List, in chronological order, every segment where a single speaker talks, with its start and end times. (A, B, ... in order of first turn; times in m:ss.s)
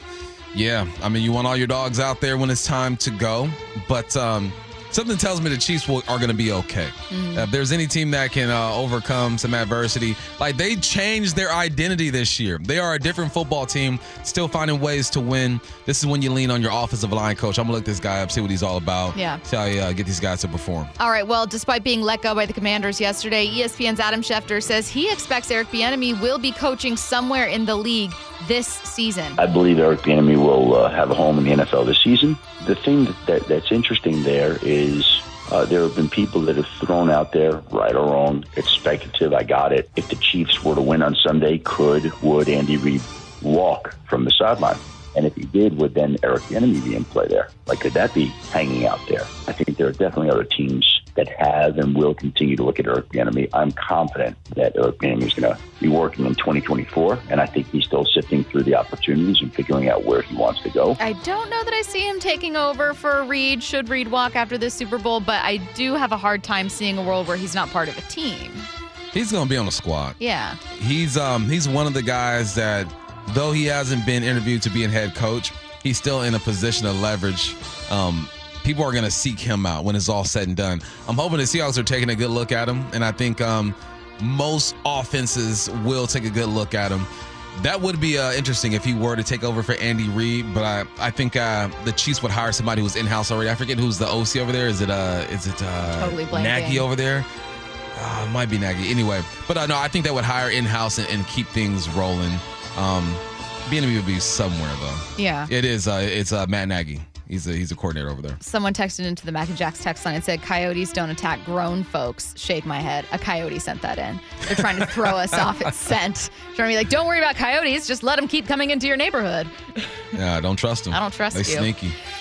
0:00.5-0:20.9 A
0:07.1-0:07.5 B
0:19.1-0:19.4 B
0:21.0-0:29.4 B
0:29.4-1:01.0 C
1:01.0-1:08.7 B
1:09.1-1:10.2 A
1:10.2-1:10.6 B
1:10.7-1:37.3 A
1:35.9-1:36.8 B
1:37.9-1:48.4 A
1:45.2-1:45.5 B
1:48.4-1:59.5 B
2:00.1-2:02.0 A
2:00.9-2:01.7 B